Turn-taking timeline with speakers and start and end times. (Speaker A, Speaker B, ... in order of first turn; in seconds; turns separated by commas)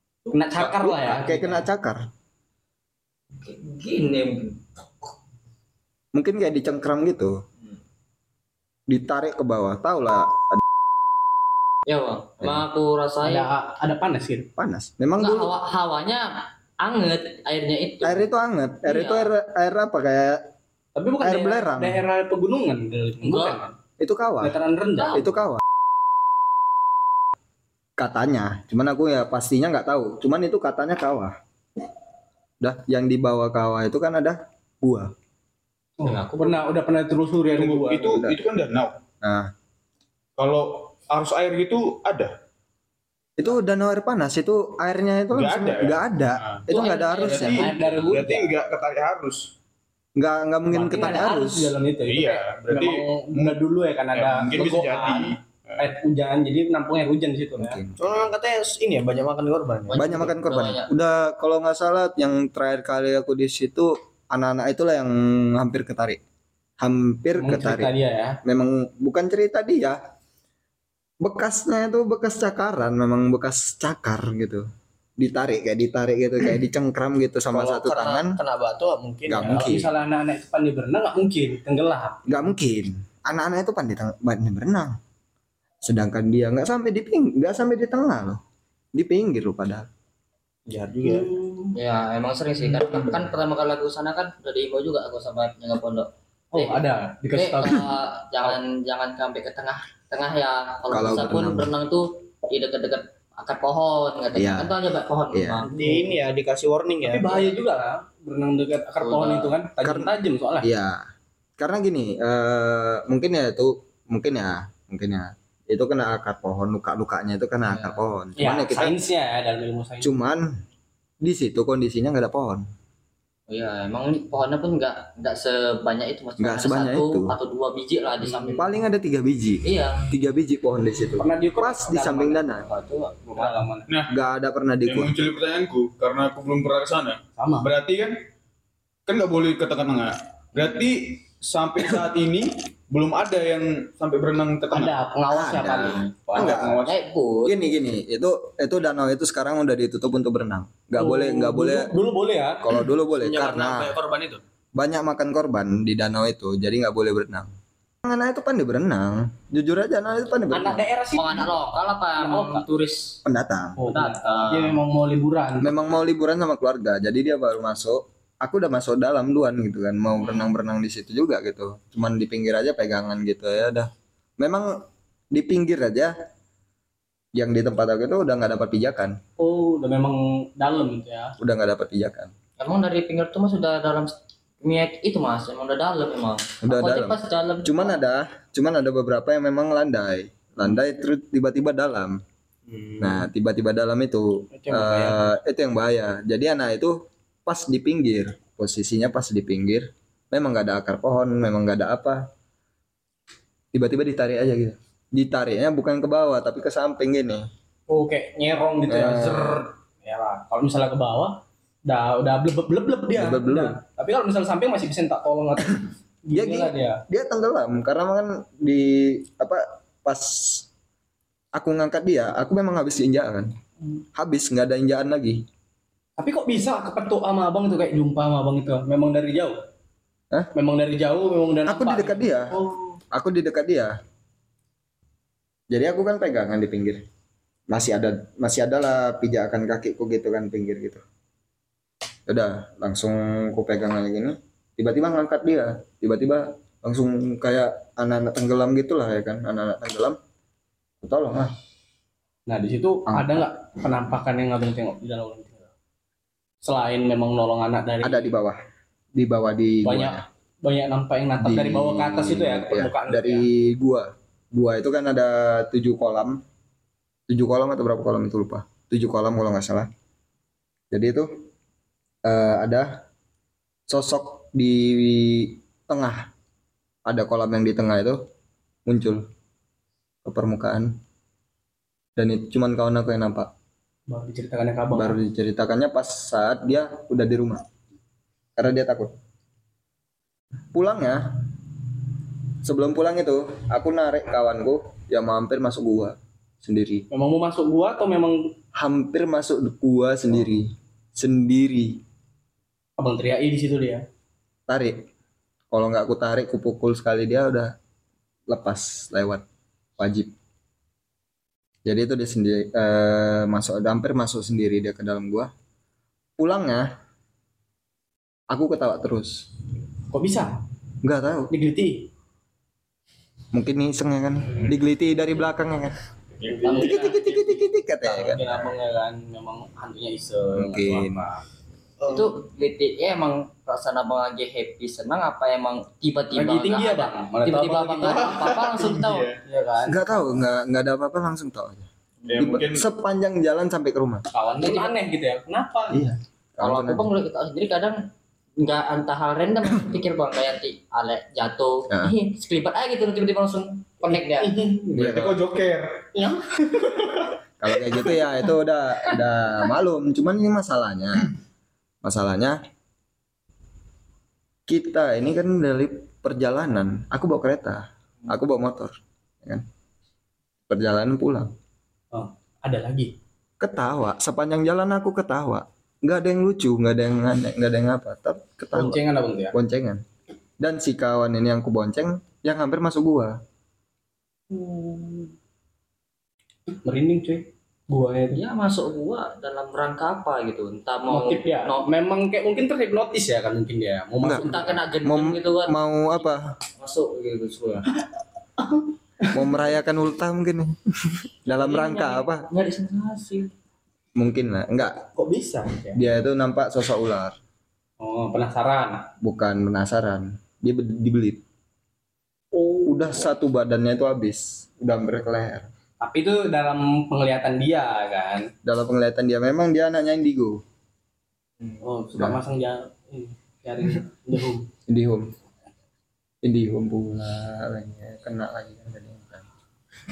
Speaker A: 0.3-1.6, Speaker B: 0.6-2.0, Speaker C: 3.4-5.1, Speaker B: 6.1-7.4, Speaker B: 8.9-10.6, Speaker C: 11.9-13.5, Speaker A: 13.2-14.5, Speaker B: 14.6-15.5, Speaker C: 15.2-16.3, Speaker C: 16.8-18.3, Speaker B: 18.0-20.5, Speaker C: 18.8-19.3, Speaker A: 20.9-23.7, Speaker B: 21.2-22.0, Speaker C: 23.2-23.6, Speaker B: 24.0-24.6, Speaker A: 24.4-25.3, Speaker B: 25.1-25.6, Speaker B: 28.0-31.4, Speaker B: 32.6-35.1, Speaker A: 36.0-38.2, Speaker C: 36.0-36.6, Speaker D: 37.5-38.9, Speaker B: 38.0-38.4, Speaker B: 39.2-39.5, Speaker D: 40.4-42.3, Speaker B: 43.4-47.6, Speaker D: 45.3-46.6, Speaker C: 46.7-48.1, Speaker A: 47.1-48.5, Speaker D: 47.2-49.5, Speaker B: 50.2-51.7, Speaker A: 50.7-57.8, Speaker D: 52.0-53.6, Speaker D: 54.1-55.9, Speaker B: 57.6-58.0, Speaker E: 58.0-60.3, Speaker C: 59.9-60.9, Speaker B: 59.9-66.2, Speaker B: 66.8-67.9, Speaker A: 67.4-68.4, Speaker B: 68.4-70.0, Speaker B: 71.2-74.7, Speaker B: 75.2-78.3, Speaker E: 77.5-79.8, Speaker B: 79.3-79.9, Speaker A: 79.4-82.3, Speaker B: 82.3-85.0, Speaker B: 85.8-88.4, Speaker B: 89.0-89.9, Speaker E: 90.7-91.3, Speaker A: 91.0-91.7, Speaker C: 91.7-96.8, Speaker A: 96.5-97.8, Speaker C: 97.3-105.7, Speaker B: 100.9-101.7, Speaker B: 104.3-104.7, Speaker B: 105.3-105.6, Speaker A: 105.7-106.2, Speaker E: 105.7-107.5, Speaker A: 107.0-110.7, Speaker C: 109.0-109.5, Speaker B: 109.8-110.1, Speaker B: 110.6-111.0, Speaker B: 111.6-119.0, Speaker C: 117.7-118.0, Speaker A: 118.4-120.1, Speaker B: 120.0-120.6, Speaker B: 121.2-122.6, Speaker C: 123.5-128.7, Speaker B: 126.4-127.3, Speaker B: 128.4-132.6, Speaker C: 129.6-130.1, Speaker A: 131.2-132.4, Speaker C: 132.7-133.2, Speaker A: 133.3-133.9, Speaker D: 133.4-134.1, Speaker B: 134.1-135.2, Speaker D: 134.8-138.1, Speaker A: 137.4-137.7, Speaker D: 139.1-144.9, Speaker A: 144.7-146.5, Speaker B: 145.3-146.8, Speaker D: 146.3-147.0, Speaker C: 146.8-147.5, Speaker B: 147.4-151.9, Speaker A: 151.0-152.6, Speaker B: 152.6-153.9, Speaker E: 153.2-154.4, Speaker B: 154.8-157.5, Speaker B: 158.0-160.8, Speaker A: 160.5-161.5, Speaker C: 161.1-163.2, Speaker A: 162.2-162.6, Speaker B: 163.2-163.8, Speaker A: 163.8-165.7, Speaker C: 163.9-164.7, Speaker B: 165.6-176.1, Speaker B: 177.3-179.2, Speaker A: 179.4-181.3, Speaker B: 181.4-182.3, Speaker C: 182.6-188.0, Speaker B: 186.6-192.2, Speaker B: 193.0-202.2, Speaker A: 194.5-195.3, Speaker B: 203.7-207.5, Speaker A: 207.9-217.0, Speaker B: 208.8-209.7, Speaker B: 213.1-213.8, Speaker B: 216.3-220.6, Speaker B: 221.5-223.5, Speaker B: 224.1-225.4, Speaker A: 226.2-229.6, Speaker A: 230.5-232.9, Speaker B: 231.7-232.5, Speaker B: 233.1-233.9, Speaker B: 235.7-237.0, Speaker B: 237.7-241.0, Speaker B: 242.3-250.2, Speaker B: 251.0-251.5, Speaker A: 252.5-255.7, Speaker B: 253.1-253.4, Speaker A: 256.6-258.3, Speaker B: 258.0-258.6, Speaker B: 259.1-260.2, Speaker A: 259.8-263.4, Speaker B: 261.4-266.4, Speaker B: 267.3-269.9, Speaker B: 270.9-271.3, Speaker B: 272.2-273.0, Speaker B: 273.9-276.3, Speaker B: 277.1-278.2, Speaker B: 278.9-279.2, Speaker B: 280.2-281.0, Speaker B: 282.2-283.5, Speaker A: 284.1-285.2, Speaker B: 284.9-287.6, Speaker B: 288.6-289.1, Speaker B: 290.7-291.4, Speaker B: 292.6-297.0, Speaker A: 297.1-298.5, Speaker B: 298.7-302.0, Speaker A: 303.0-304.0, Speaker B: 304.7-305.1, Speaker B: 305.7-307.7, Speaker B: 308.5-309.4, Speaker B: 310.0-310.3, Speaker B: 311.9-315.5, Speaker B: 316.4-316.9, Speaker B: 318.5-319.4, Speaker A: 320.1-320.5, Speaker B: 321.0-321.5, Speaker A: 321.5-322.1, Speaker B: 323.5-326.0, Speaker D: 326.4-326.9, Speaker A: 326.4-331.4, Speaker B: 326.8-328.7, Speaker B: 330.5-331.2, Speaker E: 332.0-332.3, Speaker C: 332.1-339.3, Speaker A: 336.3-338.5, Speaker D: 338.0-339.4, Speaker A: 339.4-340.1, Speaker B: 339.9-344.2, Speaker D: 342.3-342.9, Speaker A: 344.3-346.0, Speaker C: 344.5-344.9, Speaker B: 345.9-347.1, Speaker C: 346.6-348.0, Speaker C: 348.6-354.6, Speaker A: 354.1-354.9, Speaker D: 354.9-356.0, Speaker B: 354.9-355.3, Speaker A: 356.1-357.1, Speaker B: 357.6-361.3, Speaker B: 362.0-362.6, Speaker B: 364.7-368.9, Speaker B: 370.7-371.5, Speaker A: 372.1-373.1, Speaker B: 373.6-379.0, Speaker A: 378.7-379.5, Speaker B: 379.5-380.0, Speaker B: 380.6-383.4, Speaker A: 384.5-385.3, Speaker A: 386.8-388.4, Speaker C: 388.3-391.9, Speaker A: 391.1-394.8, Speaker C: 394.4-395.7, Speaker B: 395.0-396.4, Speaker C: 396.8-397.9, Speaker B: 399.3-402.4, Speaker C: 401.5-403.5, Speaker B: 404.2-405.0, Speaker A: 405.1-406.0, Speaker B: 405.9-407.4, Speaker A: 408.0-409.0, Speaker B: 409.2-411.4, Speaker A: 412.5-413.3, Speaker B: 412.9-415.7, Speaker A: 416.0-418.5, Speaker B: 418.6-420.6, Speaker A: 421.8-424.7, Speaker B: 422.1-422.4, Speaker B: 424.9-425.3, Speaker B: 426.4-429.4